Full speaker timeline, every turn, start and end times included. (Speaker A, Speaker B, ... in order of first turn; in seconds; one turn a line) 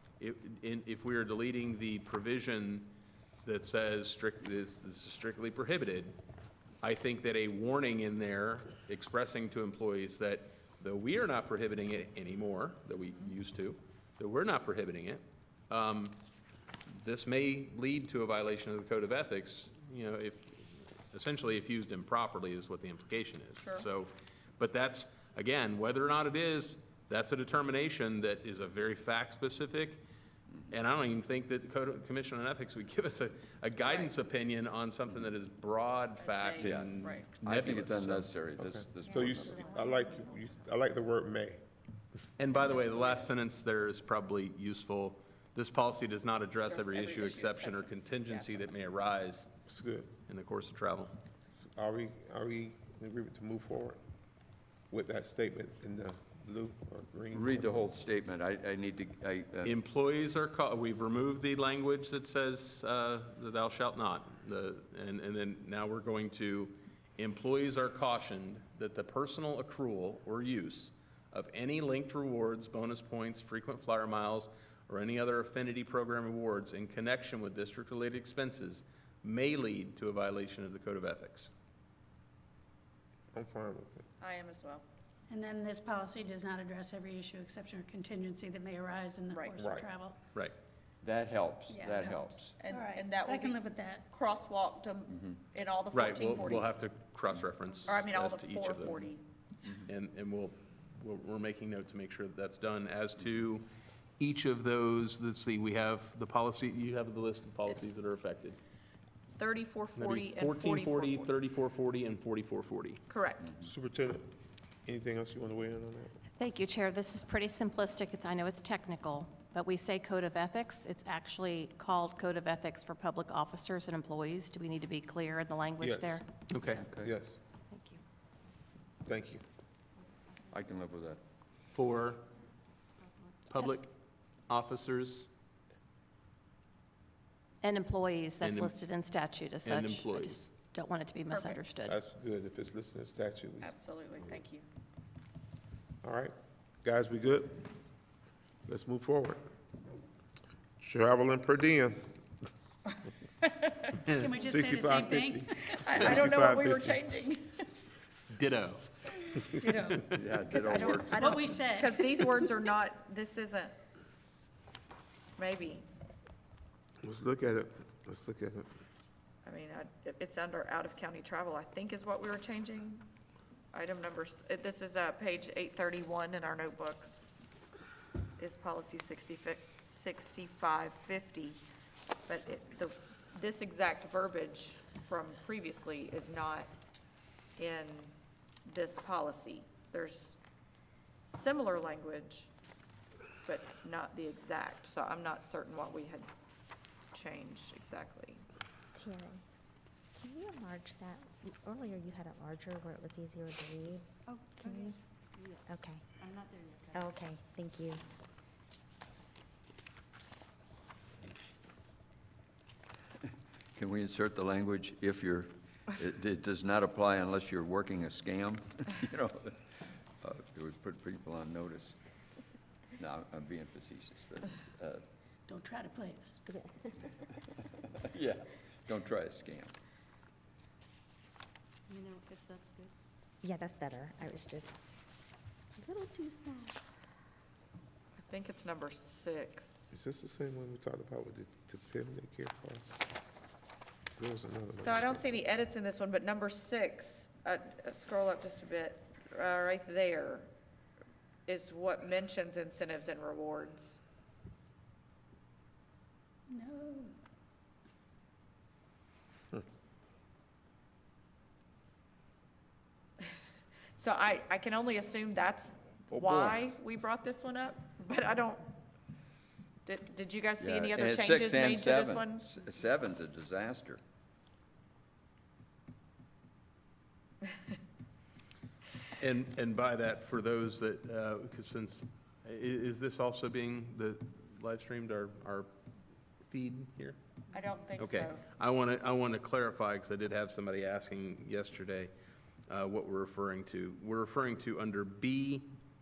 Speaker A: 0.2-2.9
Speaker A: 3.5-6.2
Speaker A: 6.8-16.2
Speaker A: 16.9-30.0
Speaker B: 23.6-23.9
Speaker A: 30.7-38.3
Speaker B: 33.9-34.1
Speaker B: 36.2-37.3
Speaker C: 36.6-39.7
Speaker D: 38.6-41.6
Speaker A: 42.4-49.5
Speaker B: 42.8-43.2
Speaker B: 46.7-48.7
Speaker D: 49.7-50.1
Speaker A: 50.3-51.1
Speaker D: 51.6-54.0
Speaker D: 54.9-57.9
Speaker C: 57.3-59.8
Speaker A: 59.6-81.5
Speaker D: 83.3-84.1
Speaker B: 84.2-84.8
Speaker E: 85.3-90.2
Speaker B: 89.3-89.8
Speaker D: 89.6-89.9
Speaker C: 91.0-92.5
Speaker E: 91.7-94.0
Speaker B: 92.6-96.8
Speaker A: 95.9-99.1
Speaker B: 97.8-99.8
Speaker A: 99.9-103.7
Speaker A: 104.2-108.6
Speaker B: 109.4-111.3
Speaker A: 110.0-113.0
Speaker B: 113.1-113.5
Speaker D: 113.6-114.2
Speaker D: 114.9-116.2
Speaker F: 116.4-126.2
Speaker D: 125.8-126.2
Speaker A: 126.5-126.8
Speaker C: 126.8-127.1
Speaker D: 127.0-127.4
Speaker F: 127.7-128.0
Speaker D: 129.1-129.4
Speaker C: 130.5-131.2
Speaker A: 131.7-132.2
Speaker G: 133.0-133.4
Speaker A: 133.5-133.9
Speaker A: 134.5-135.3
Speaker F: 137.6-142.0
Speaker A: 138.4-138.7
Speaker A: 139.7-140.5
Speaker B: 141.3-141.6
Speaker D: 141.8-143.7
Speaker B: 143.6-144.7
Speaker D: 146.0-147.7
Speaker D: 148.7-149.4
Speaker D: 150.8-152.0
Speaker E: 154.2-155.8
Speaker D: 154.3-157.0
Speaker B: 155.7-157.7
Speaker A: 158.3-158.8
Speaker B: 159.2-163.7
Speaker C: 160.1-161.3
Speaker E: 160.8-162.5
Speaker B: 165.4-165.8
Speaker D: 167.0-168.7
Speaker B: 169.4-173.0
Speaker B: 173.7-177.3
Speaker B: 178.4-181.6
Speaker B: 182.3-186.7
Speaker B: 187.6-188.1
Speaker B: 188.7-190.4
Speaker B: 191.3-192.5
Speaker B: 193.4-196.3
Speaker B: 197.1-198.4
Speaker H: 198.9-199.4
Speaker H: 200.2-205.0
Speaker G: 204.3-205.6
Speaker H: 205.7-206.0
Speaker G: 206.2-207.1
Speaker H: 206.9-208.0
Speaker C: 213.7-222.0
Speaker C: 223.0-225.0
Speaker E: 225.5-226.4
Speaker H: 226.5-227.0
Speaker C: 228.0-229.8
Speaker G: 231.9-232.9
Speaker H: 233.4-234.8
Speaker H: 235.8-236.8
Speaker B: 238.2-239.9
Speaker D: 239.9-243.0
Speaker D: 244.2-245.4
Speaker B: 244.8-250.5
Speaker B: 251.5-254.0
Speaker E: 256.5-257.1
Speaker B: 264.0-268.7
Speaker C: 266.1-266.7
Speaker B: 269.9-272.4
Speaker C: 270.6-274.0
Speaker A: 279.2-285.7
Speaker A: 286.4-287.2
Speaker B: 287.5-288.4
Speaker A: 288.0-292.1
Speaker A: 292.7-295.7